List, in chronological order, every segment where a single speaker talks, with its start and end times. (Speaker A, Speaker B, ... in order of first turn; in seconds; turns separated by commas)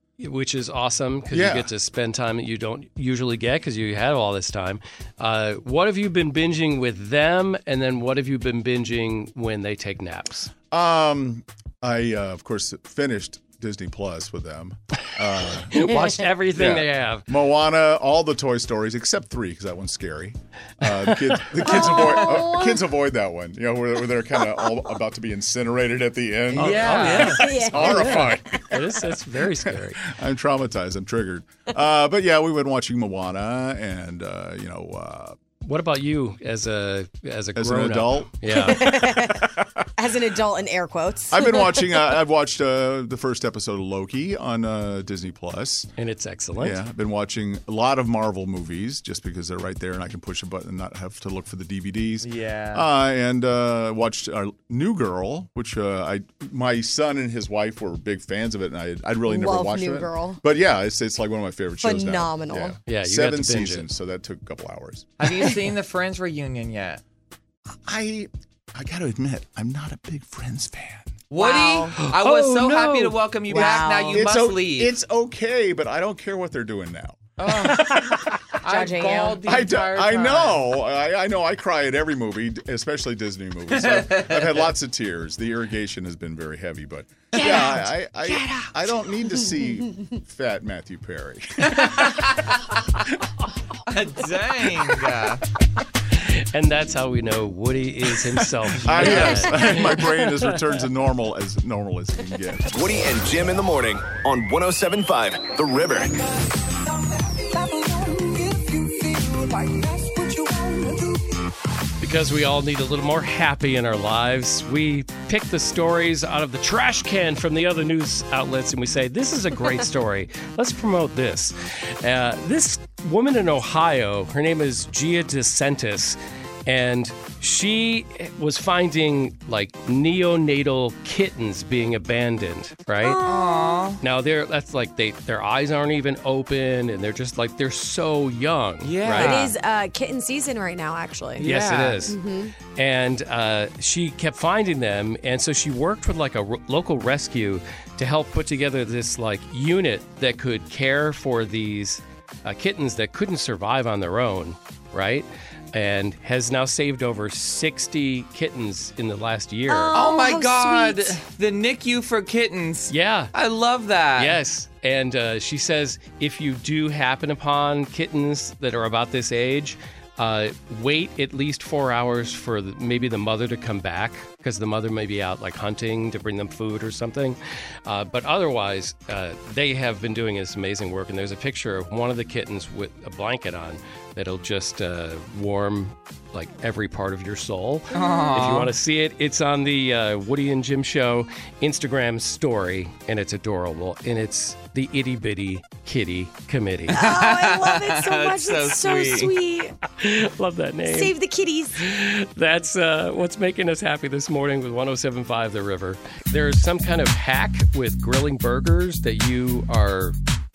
Speaker A: 0.2-10.5, Speaker B: 1.3-1.7, Speaker B: 10.7-15.8, Speaker A: 15.7-17.2, Speaker B: 16.5-28.8, Speaker A: 20.8-21.5, Speaker C: 21.6-22.8, Speaker D: 26.5-27.5, Speaker A: 26.6-30.0, Speaker C: 27.3-28.4, Speaker B: 29.6-35.4, Speaker A: 35.6-38.8, Speaker B: 37.5-39.6, Speaker C: 38.6-42.1, Speaker B: 41.3-45.9, Speaker A: 46.0-46.8, Speaker B: 46.6-65.1, Speaker D: 52.2-52.9, Speaker C: 59.3-60.4, Speaker C: 61.8-62.8, Speaker A: 62.9-63.9, Speaker D: 65.2-67.0, Speaker B: 67.8-71.2, Speaker D: 71.3-74.9, Speaker C: 71.4-71.9, Speaker A: 72.0-73.8, Speaker C: 73.5-74.3, Speaker B: 74.1-77.3, Speaker D: 77.4-80.6, Speaker C: 78.6-79.4, Speaker B: 79.4-92.2, Speaker D: 83.8-84.7, Speaker D: 87.3-87.6, Speaker C: 87.4-89.6, Speaker D: 91.7-92.5, Speaker D: 93.9-95.4, Speaker A: 96.1-100.5, Speaker B: 98.7-103.0, Speaker C: 99.0-99.4, Speaker E: 102.7-106.2, Speaker A: 112.0-133.2, Speaker C: 133.0-133.9, Speaker D: 133.2-134.0, Speaker A: 134.0-139.5, Speaker D: 138.8-139.5, Speaker C: 139.1-141.4, Speaker D: 141.4-142.0, Speaker A: 141.4-142.2, Speaker C: 142.1-142.5, Speaker A: 142.8-159.9, Speaker C: 159.7-161.2, Speaker D: 159.9-164.4, Speaker A: 162.9-163.3, Speaker A: 164.2-197.0, Speaker D: 187.9-188.7, Speaker C: 187.9-188.3, Speaker D: 196.9-199.3, Speaker C: 196.9-199.7, Speaker A: 200.0-201.1, Speaker C: 200.9-201.8, Speaker A: 201.8-210.2